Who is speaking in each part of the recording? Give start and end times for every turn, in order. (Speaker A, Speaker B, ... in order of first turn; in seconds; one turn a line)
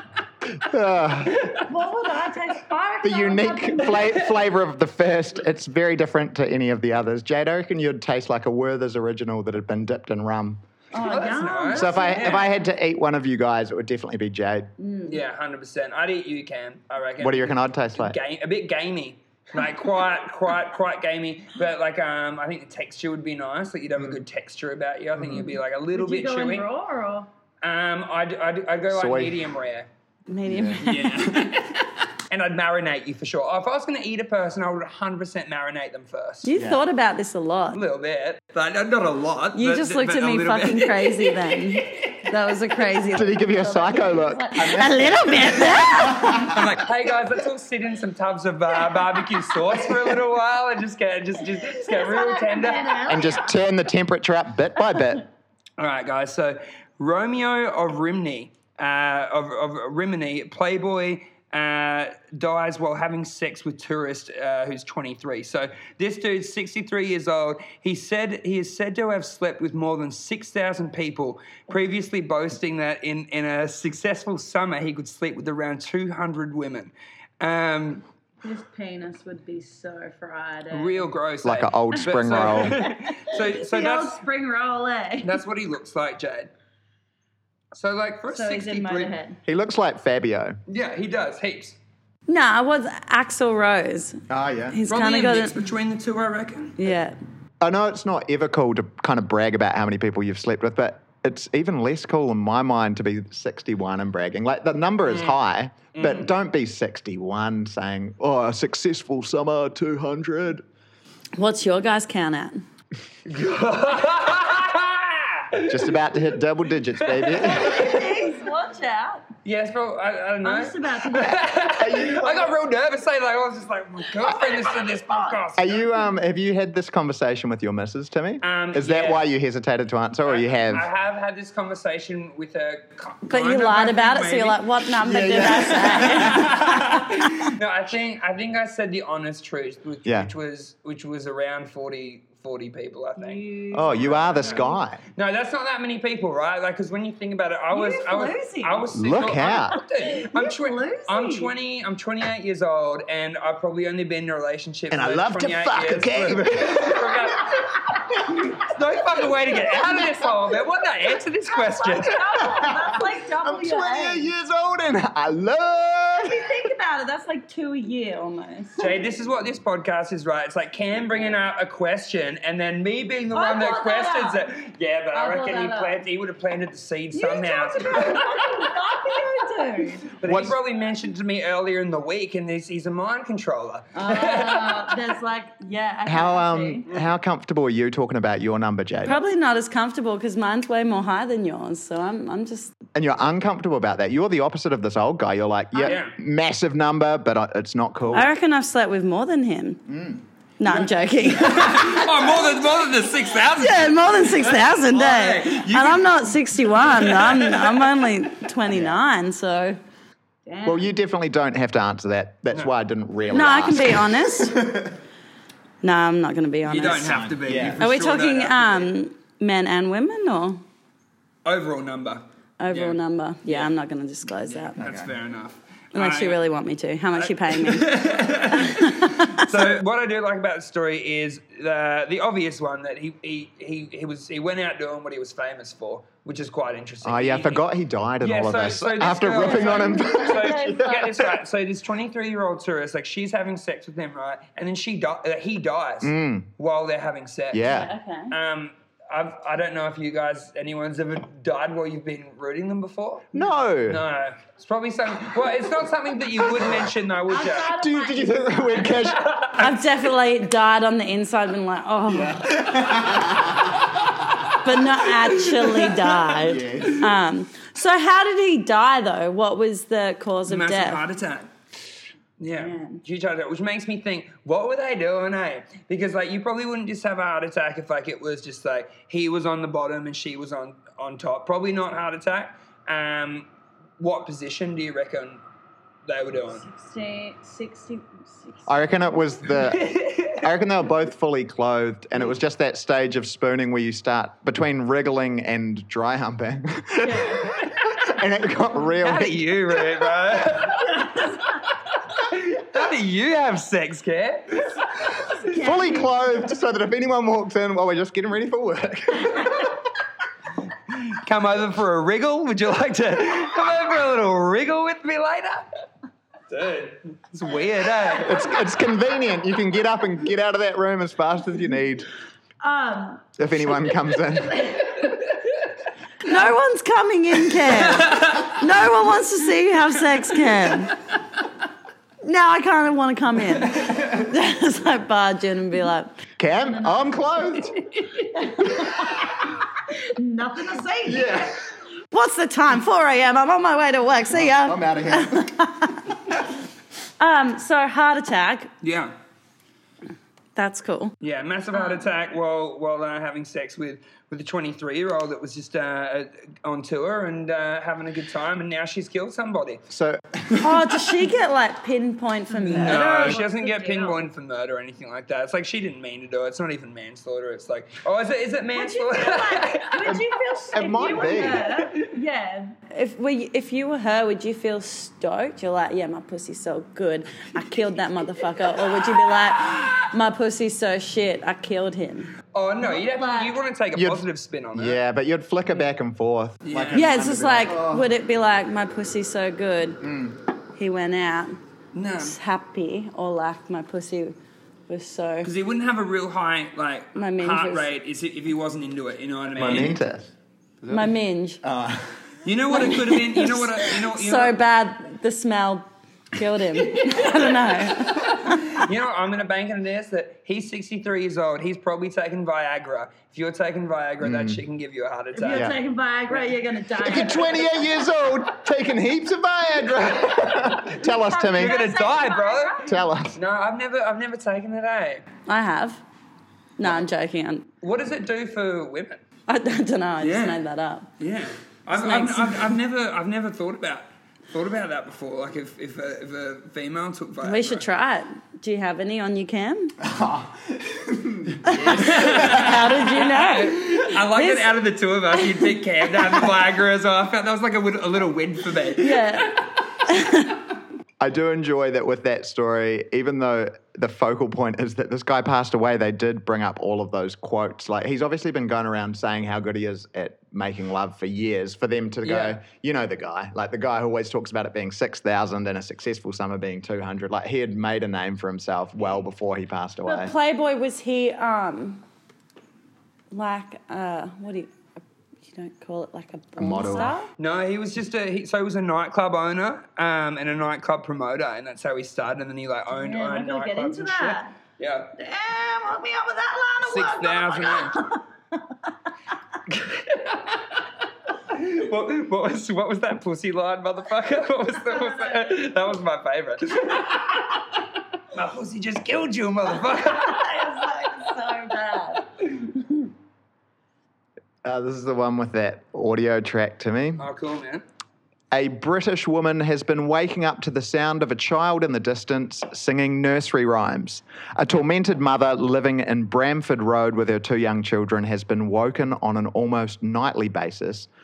Speaker A: 0.5-1.4
Speaker B: 1.2-1.7
Speaker C: 1.7-3.9
Speaker D: 1.7-3.6
Speaker A: 3.0-10.6
Speaker C: 11.0-12.4
Speaker D: 11.0-11.3
Speaker B: 11.0-12.5
Speaker A: 11.7-14.7
Speaker C: 14.8-15.2
Speaker B: 15.1-26.7
Speaker A: 17.2-18.2
Speaker A: 25.2-25.5
Speaker C: 26.0-27.3
Speaker B: 27.6-29.9
Speaker A: 28.9-29.4
Speaker C: 30.3-31.4
Speaker A: 30.5-30.9
Speaker B: 30.8-36.5
Speaker C: 36.4-37.8
Speaker A: 36.5-36.8
Speaker B: 37.7-42.1
Speaker C: 39.5-46.5
Speaker A: 43.1-46.7
Speaker B: 46.4-53.3
Speaker C: 51.8-53.4
Speaker A: 53.1-55.2
Speaker B: 55.8-78.0
Speaker C: 78.5-81.1
Speaker B: 80.7-84.2
Speaker A: 81.4-82.8
Speaker C: 83.3-85.3
Speaker B: 85.2-86.5
Speaker B: 87.7-89.2
Speaker C: 88.3-89.4
Speaker A: 89.5-90.6
Speaker B: 90.7-91.8
Speaker C: 92.3-95.6
Speaker A: 94.3-94.8
Speaker B: 94.9-96.8
Speaker C: 96.8-97.2
Speaker A: 97.6-110.6
Speaker B: 105.1-105.4
Speaker B: 105.9-106.3
Speaker C: 111.4-112.7
Speaker B: 113.3-116.0
Speaker A: 115.7-118.0
Speaker B: 117.0-118.0
Speaker C: 117.4-119.3
Speaker B: 119.5-125.9
Speaker C: 120.4-121.4
Speaker A: 121.8-122.5
Speaker C: 124.9-125.3
Speaker A: 125.6-130.9
Speaker B: 128.4-129.2
Speaker B: 130.2-134.6
Speaker C: 133.3-137.2
Speaker A: 135.0-136.7
Speaker B: 135.4-157.8
Speaker A: 140.1-140.3
Speaker C: 143.2-144.6
Speaker A: 143.7-145.0
Speaker C: 147.7-148.8
Speaker A: 148.9-149.8
Speaker C: 150.4-151.5
Speaker A: 154.9-157.6
Speaker B: 158.3-162.2
Speaker C: 161.7-164.2
Speaker D: 162.1-163.6
Speaker A: 162.2-166.5
Speaker C: 166.4-168.9
Speaker B: 168.8-178.7
Speaker C: 173.3-174.4
Speaker C: 175.2-176.0
Speaker C: 177.2-180.0
Speaker D: 177.9-180.0
Speaker B: 180.1-185.1
Speaker A: 180.2-180.6
Speaker D: 184.0-186.6
Speaker C: 184.1-186.8
Speaker A: 186.1-189.2
Speaker C: 189.1-192.7
Speaker A: 192.9-198.3
Speaker B: 195.8-196.1
Speaker C: 198.1-199.8
Speaker A: 199.9-200.2
Speaker C: 200.6-202.5
Speaker B: 201.3-208.0
Speaker C: 203.5-209.8
Speaker A: 208.7-209.0
Speaker D: 210.5-210.8
Speaker A: 210.7-215.0
Speaker C: 213.3-214.7
Speaker C: 215.8-217.2
Speaker B: 216.7-218.9
Speaker A: 216.9-217.8
Speaker C: 217.8-220.6
Speaker B: 221.4-223.7
Speaker C: 222.6-224.8
Speaker A: 224.7-225.2
Speaker B: 224.8-226.4
Speaker C: 225.9-229.7
Speaker B: 227.2-237.7
Speaker A: 237.0-241.4
Speaker B: 238.2-247.8
Speaker C: 239.4-241.0
Speaker A: 246.0-246.5
Speaker A: 247.5-247.9
Speaker C: 247.7-248.3
Speaker B: 248.3-257.7
Speaker A: 253.3-254.0
Speaker C: 257.3-258.4
Speaker D: 257.4-258.6
Speaker A: 257.6-259.2
Speaker B: 258.9-259.8
Speaker C: 259.6-262.6
Speaker A: 262.1-264.2
Speaker C: 264.6-271.0
Speaker B: 265.5-266.0
Speaker A: 266.3-267.1
Speaker B: 270.5-271.5
Speaker B: 272.4-283.5
Speaker C: 272.6-273.0
Speaker B: 284.0-285.4
Speaker B: 286.1-286.6
Speaker C: 286.7-287.8
Speaker D: 286.8-288.0
Speaker A: 288.7-299.9
Speaker B: 289.5-290.5
Speaker D: 297.0-297.4
Speaker B: 297.6-297.9
Speaker B: 298.9-305.4
Speaker D: 305.5-306.1
Speaker A: 305.5-309.8
Speaker B: 310.9-315.7
Speaker B: 316.5-318.5
Speaker A: 318.2-322.1
Speaker C: 322.7-323.0
Speaker D: 322.7-323.2
Speaker A: 323.4-324.8
Speaker B: 325.0-325.5
Speaker C: 326.2-331.0
Speaker B: 327.6-328.6
Speaker C: 332.2-336.2
Speaker A: 336.4-337.8
Speaker D: 336.7-337.4
Speaker C: 338.2-339.3
Speaker D: 340.2-341.4
Speaker A: 341.0-341.6
Speaker C: 342.1-346.2
Speaker A: 344.3-345.6
Speaker C: 347.2-348.7
Speaker B: 348.8-349.1
Speaker C: 350.6-351.1
Speaker B: 351.2-359.8
Speaker A: 359.9-360.9
Speaker C: 360.6-363.5
Speaker B: 362.7-370.1
Speaker D: 362.8-364.2
Speaker D: 368.8-372.7
Speaker A: 370.1-371.7
Speaker C: 371.0-371.4
Speaker B: 371.3-372.1
Speaker C: 372.9-382.3
Speaker B: 379.1-379.9
Speaker B: 382.5-385.0
Speaker D: 382.9-383.4
Speaker C: 383.2-383.5
Speaker A: 383.9-388.1
Speaker B: 386.6-387.2
Speaker C: 386.9-390.1
Speaker A: 390.0-390.3
Speaker C: 390.8-391.6
Speaker B: 391.9-392.4
Speaker C: 392.2-394.4
Speaker C: 394.9-395.5
Speaker B: 395.4-400.0
Speaker C: 397.1-397.9
Speaker A: 399.6-402.3
Speaker C: 400.9-401.6
Speaker B: 402.4-404.6
Speaker C: 402.7-408.9
Speaker B: 408.2-415.7
Speaker A: 414.2-414.6
Speaker D: 415.4-417.8
Speaker A: 415.5-415.8
Speaker B: 416.3-416.6
Speaker A: 417.0-421.9
Speaker D: 421.0-423.0
Speaker B: 421.5-425.2
Speaker A: 422.9-423.4
Speaker C: 425.5-426.0
Speaker C: 426.8-427.7
Speaker B: 427.8-429.2
Speaker C: 429.5-431.1
Speaker B: 430.2-430.6
Speaker B: 431.2-437.9
Speaker C: 431.9-432.8
Speaker C: 437.4-440.0
Speaker A: 440.0-442.8
Speaker C: 441.6-444.8
Speaker B: 441.8-449.6
Speaker C: 445.4-446.5
Speaker C: 449.0-450.6
Speaker A: 451.2-470.3
Speaker B: 462.2-462.6
Speaker C: 470.1-472.0
Speaker C: 473.3-474.8
Speaker C: 475.4-477.3
Speaker A: 476.6-477.1
Speaker B: 477.4-485.1
Speaker D: 483.0-484.5
Speaker D: 485.2-488.2
Speaker B: 486.8-488.0
Speaker B: 489.7-490.9
Speaker B: 491.5-497.6
Speaker B: 498.3-500.6
Speaker D: 500.4-502.2
Speaker C: 501.0-502.1
Speaker A: 504.6-507.2
Speaker B: 507.2-507.8
Speaker A: 508.5-521.1